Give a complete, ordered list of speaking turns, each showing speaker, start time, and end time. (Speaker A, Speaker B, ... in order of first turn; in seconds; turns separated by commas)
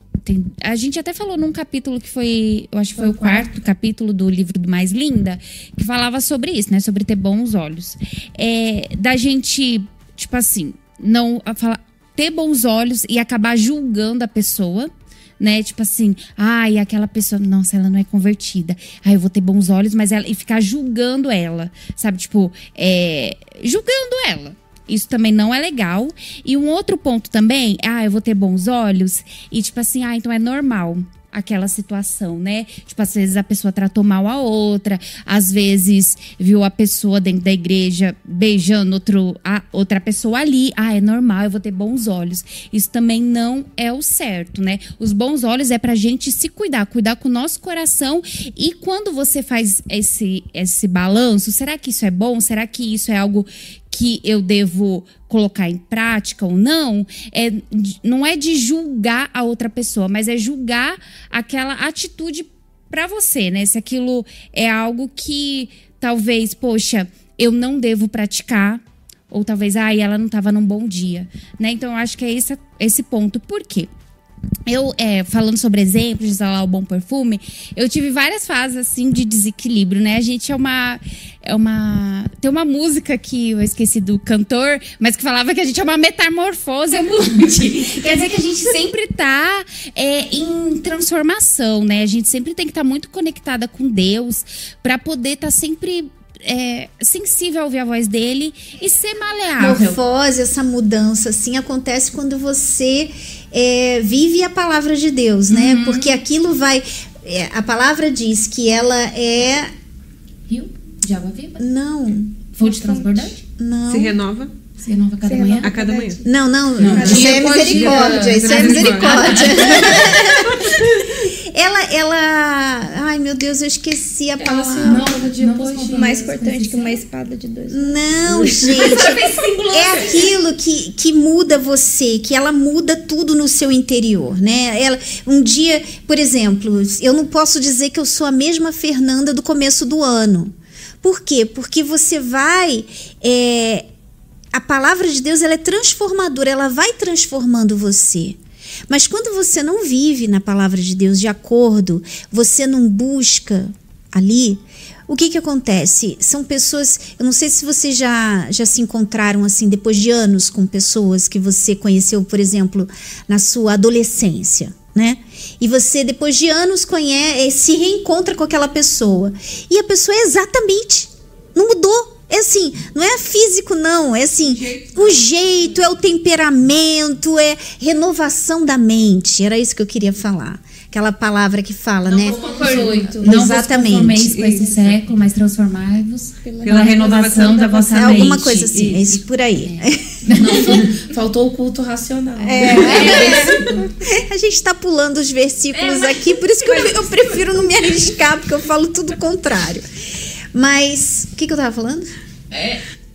Speaker A: 0.2-73.9, Speaker A: 74.7-100.0, Speaker B: 99.6-109.7, Speaker A: 105.5-106.2, Speaker A: 110.5-111.7, Speaker B: 111.6-112.4, Speaker A: 112.5-113.4, Speaker C: 112.6-113.3, Speaker B: 113.6-114.2, Speaker D: 113.9-114.5, Speaker A: 114.8-115.7, Speaker C: 115.2-116.4, Speaker D: 115.6-116.2, Speaker B: 116.2-125.0, Speaker A: 116.8-117.5, Speaker D: 116.8-120.9, Speaker C: 116.9-117.7, Speaker E: 116.9-118.7, Speaker A: 118.4-120.3, Speaker E: 124.4-126.3, Speaker A: 124.8-127.0, Speaker C: 125.9-128.0, Speaker B: 127.7-143.9, Speaker A: 128.7-130.2, Speaker B: 144.5-184.4, Speaker D: 174.4-175.2, Speaker E: 182.1-183.2, Speaker A: 182.3-190.9, Speaker D: 184.2-185.0, Speaker C: 186.4-186.9, Speaker D: 186.6-188.4, Speaker B: 187.9-190.1, Speaker E: 190.5-193.7, Speaker B: 192.4-199.9, Speaker A: 192.6-193.8, Speaker A: 195.7-197.0, Speaker B: 200.5-202.1, Speaker A: 202.5-202.8